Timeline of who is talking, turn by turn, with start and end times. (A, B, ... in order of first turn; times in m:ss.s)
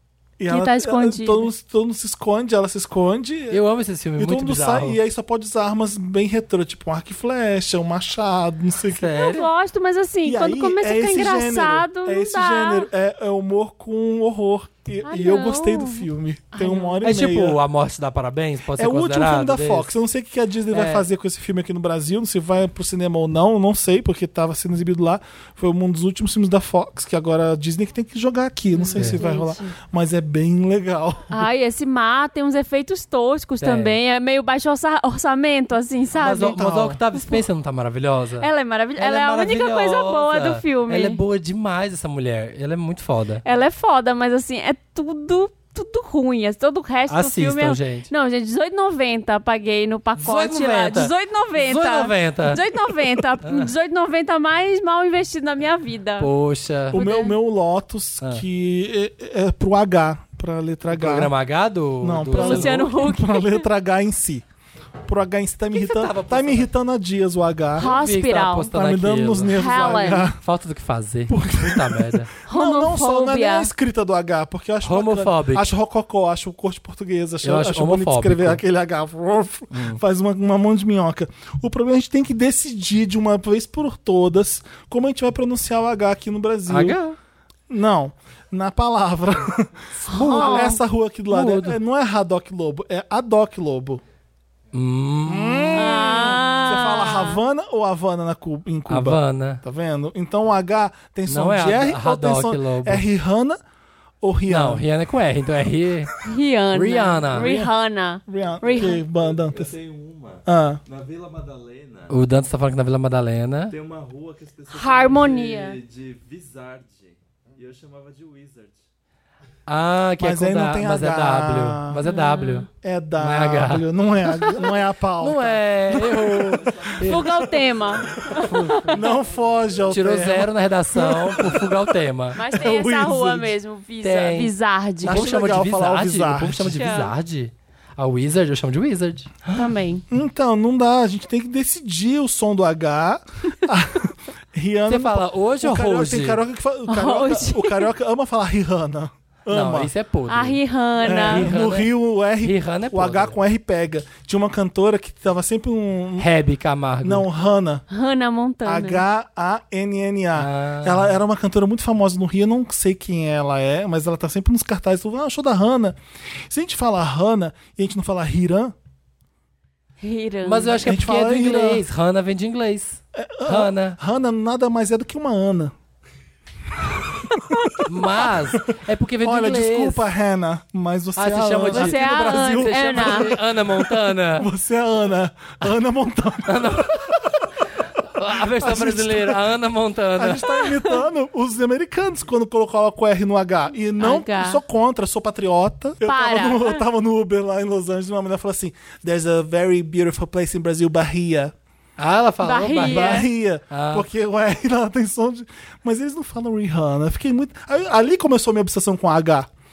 0:00.4-0:03.6 A
0:00.5-0:01.5 B
0:03.5-0:05.0 C
0:04.2-0:09.1 A
0:08.9-0:09.5 C
0:09.1-0:12.9 B
0:10.2-0:17.6 A
0:15.0-0:17.0 B
0:17.0-0:19.9 C
0:18.8-0:31.4 A
0:20.7-0:21.1 C
0:28.7-0:29.7 B
0:31.3-0:36.6 B
0:33.6-0:34.0 C
0:36.2-0:43.4 C
0:36.2-0:37.0 A
0:38.4-0:41.2 B
0:43.4-0:56.3 B
0:47.1-0:48.1 C
0:50.2-0:52.6 C
0:53.4-0:53.7 C
0:56.2-0:57.0 C
0:56.9-0:57.3 B
0:56.9-1:01.3 A
1:00.9-1:02.9 C
1:02.0-1:04.4 A
1:02.3-1:03.6 B
1:05.1-1:07.9 A
1:05.7-1:06.7 C
1:07.8-1:08.7 B
1:07.8-1:12.3 C
1:08.7-1:10.4 A
1:09.6-1:10.3 B
1:11.3-1:27.0 A
1:12.5-1:13.7 B
1:14.8-1:15.7 C
1:17.4-1:18.6 C
1:19.7-1:20.0 C
1:26.7-1:27.2 C
1:27.7-1:34.0 A
1:30.0-1:30.8 C
1:30.1-1:30.8 B
1:31.3-1:31.8 C
1:34.7-1:35.9 C
1:35.2-1:43.6 A
1:35.8-1:37.4 B
1:38.9-1:39.6 C
1:41.3-1:43.1 C
1:44.2-1:44.9 A
1:44.5-1:46.1 C
1:46.2-1:49.0 B
1:46.7-1:47.6 C
1:47.4-1:47.7 A
1:48.3-1:49.7 A
1:48.6-1:52.2 D
1:50.5-1:50.8 A
1:52.1-1:53.7 C
1:53.7-1:58.8 D
1:54.7-1:55.8 B
1:59.7-2:03.8 C
2:00.2-2:02.0 A
2:02.0-2:02.7 B
2:02.8-2:06.7 A
2:04.2-2:04.6 B
2:05.2-2:07.2 C
2:06.3-2:10.2 D
2:07.0-2:08.9 B
2:08.5-2:09.0 C
2:08.9-2:11.8 A
2:09.9-2:12.4 C
2:12.4-2:15.2 B
2:12.5-2:13.6 A
2:14.0-2:19.6 C
2:15.0-2:16.8 A
2:16.8-2:17.1 B
2:19.5-2:20.0 B
2:20.1-2:29.9 A
2:24.9-2:26.4 C
2:26.9-2:27.9 B
2:29.5-2:33.4 C
2:30.3-2:31.6 B
2:31.0-2:36.3 A
2:36.2-2:37.3 C
2:37.0-2:37.8 A
2:37.9-2:39.0 B
2:38.6-2:46.0 A
2:40.4-2:41.2 C
2:46.5-2:48.8 A
2:50.0-2:50.9 B
2:50.4-2:54.0 C
2:50.8-2:51.8 A
2:53.1-2:55.7 A
2:57.3-3:07.3 A
2:57.8-3:00.0 C
3:01.2-3:04.5 C
3:01.7-3:03.3 B
3:06.4-3:07.2 C
3:08.0-3:10.6 C
3:08.4-3:09.4 A
3:10.2-3:21.5 A
3:14.0-3:14.6 B
3:16.0-3:16.8 B
3:22.0-3:24.1 C
3:22.4-3:23.2 B
3:22.8-3:29.5 A